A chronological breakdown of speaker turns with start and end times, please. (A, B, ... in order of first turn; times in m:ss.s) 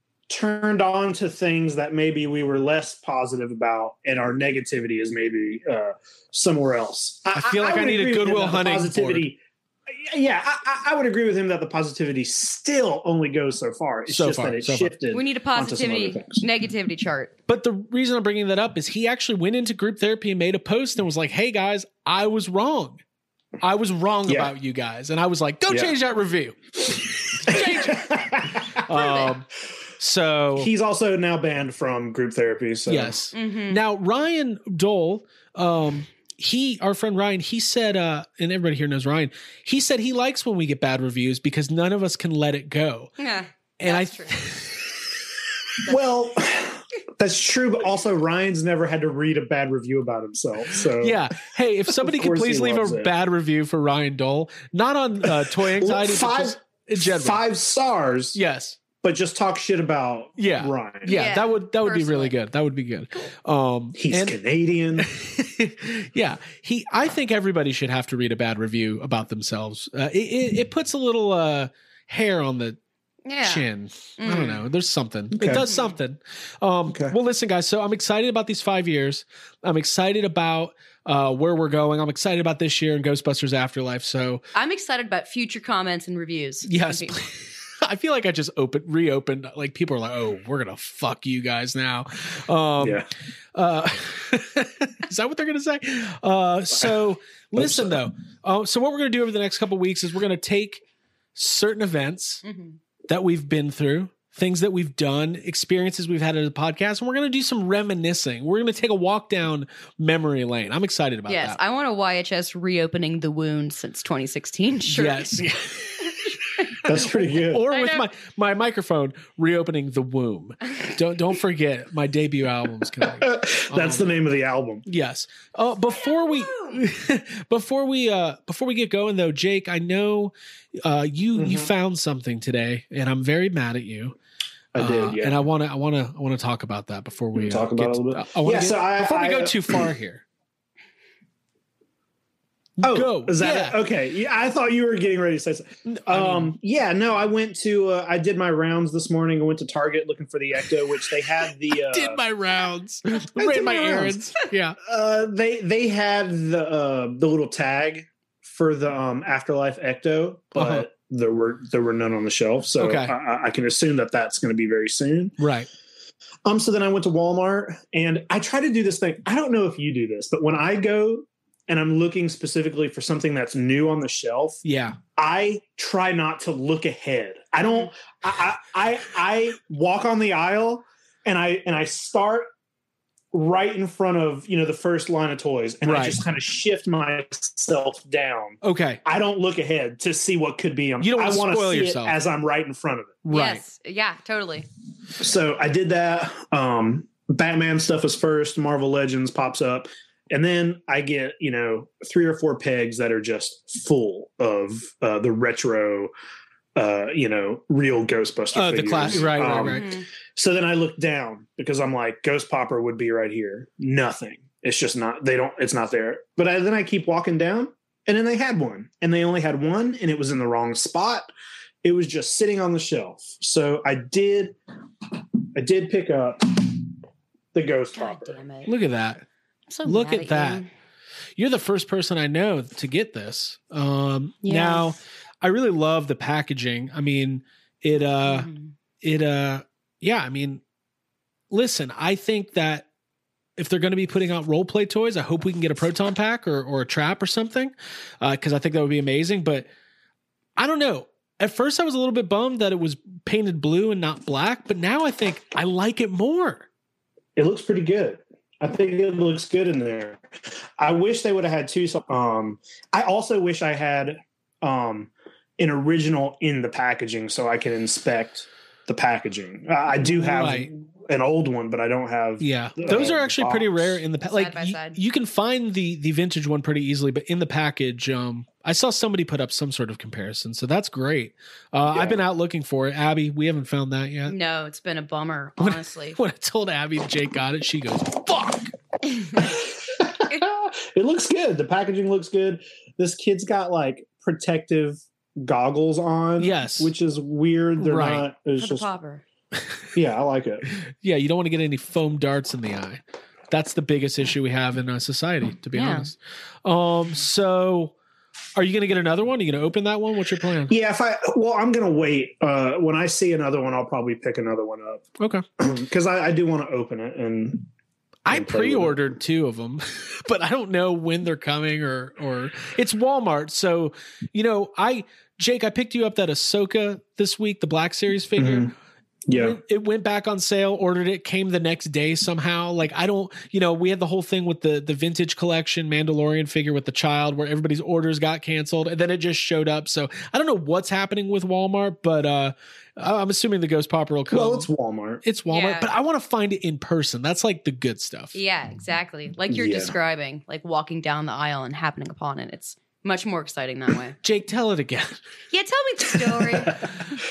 0:00.3-0:09.4 A
0:07.3-0:09.2 B
0:10.0-0:16.4 A
0:14.1-0:14.9 B
0:15.1-0:17.3 C
0:17.5-0:23.0 B
0:23.6-0:29.5 B
0:24.3-0:24.5 A
0:25.7-0:25.9 A
0:27.5-0:28.8 A
0:29.0-0:29.3 C
0:30.0-0:30.7 B
0:30.6-0:33.2 A
0:32.9-0:43.2 B
0:33.3-0:33.8 C
0:43.2-0:44.4 C
0:43.8-0:44.9 B
0:45.8-0:51.2 A
0:51.0-0:57.4 B
0:51.9-0:53.1 A
0:55.3-0:58.4 A
0:58.3-0:58.8 B
0:59.0-1:01.2 A
1:00.4-1:04.4 B
1:01.0-1:02.4 C
1:04.0-1:05.1 A
1:05.0-1:12.8 B
1:13.2-1:13.7 C
1:13.4-1:24.4 B
1:14.2-1:14.6 C
1:15.3-1:15.7 A
1:15.7-1:15.9 C
1:16.9-1:17.2 A
1:24.6-1:27.2 C
1:26.7-1:40.8 B
1:32.8-1:33.1 A
1:37.6-1:38.0 A
1:41.3-1:42.4 B
1:42.4-1:42.8 C
1:43.1-1:51.6 B
1:51.3-1:55.3 C
1:54.9-1:56.2 B
1:56.8-1:57.7 A
1:56.8-2:04.1 B
1:57.7-1:58.1 C
2:03.2-2:04.8 A
2:04.8-2:14.2 B
2:06.0-2:06.8 C
2:11.4-2:11.7 A
2:14.7-2:15.4 A
2:14.8-2:20.2 B
2:17.3-2:19.9 A
2:22.8-2:23.8 B
2:22.8-2:32.2 A
2:25.9-2:26.6 B
2:31.9-2:34.8 B
2:33.4-2:45.4 A
2:40.6-2:40.8 B
2:42.8-2:43.2 B
2:45.4-2:45.7 B
2:46.4-2:54.6 A
2:54.6-2:55.0 B
2:55.2-3:02.5 A
3:03.3-3:13.2 A
3:05.8-3:06.2 B
3:08.6-3:09.0 B
3:11.0-3:12.2 B
3:13.2-3:13.6 B
3:13.3-3:14.7 C
3:15.2-3:26.1 A
3:26.8-3:41.3 A
3:28.5-3:29.9 B
3:29.1-3:30.0 C
3:41.8-3:44.6 A
3:45.6-3:46.9 A
3:47.5-3:48.4 A
3:47.9-3:48.7 C
3:48.6-3:49.2 B
3:49.7-3:50.7 C
3:49.8-3:50.6 B
3:51.4-3:58.5 B
3:54.4-3:54.9 C
3:58.2-3:58.7 C
3:59.0-4:00.6 B
4:01.5-4:02.9 B
4:03.6-4:09.7 B
4:10.6-4:16.7 B
4:17.4-4:20.2 A
4:20.8-4:34.0 A
4:30.0-4:30.7 B
4:32.4-4:44.3 B
4:34.3-4:35.0 C
4:41.9-4:42.2 A
4:44.3-4:46.2 C
4:45.6-4:48.7 B
4:49.4-4:58.8 A
4:56.4-4:56.9 B
4:57.8-4:58.2 B
4:58.6-4:59.2 C
4:59.9-5:00.7 A
5:01.0-5:07.9 B
5:05.7-5:06.1 C
5:08.6-5:10.7 B
5:10.7-5:17.7 A
5:15.2-5:15.4 B
5:18.2-5:28.7 B
5:18.3-5:19.1 A
5:28.4-5:28.7 A
5:29.3-5:29.6 A
5:29.3-5:44.7 B
5:44.3-5:45.2 A
5:45.2-5:48.4 B
5:45.5-5:45.9 C
5:48.3-5:54.2 C
5:49.5-5:49.9 A
5:54.2-5:55.2 B
5:55.5-5:56.9 C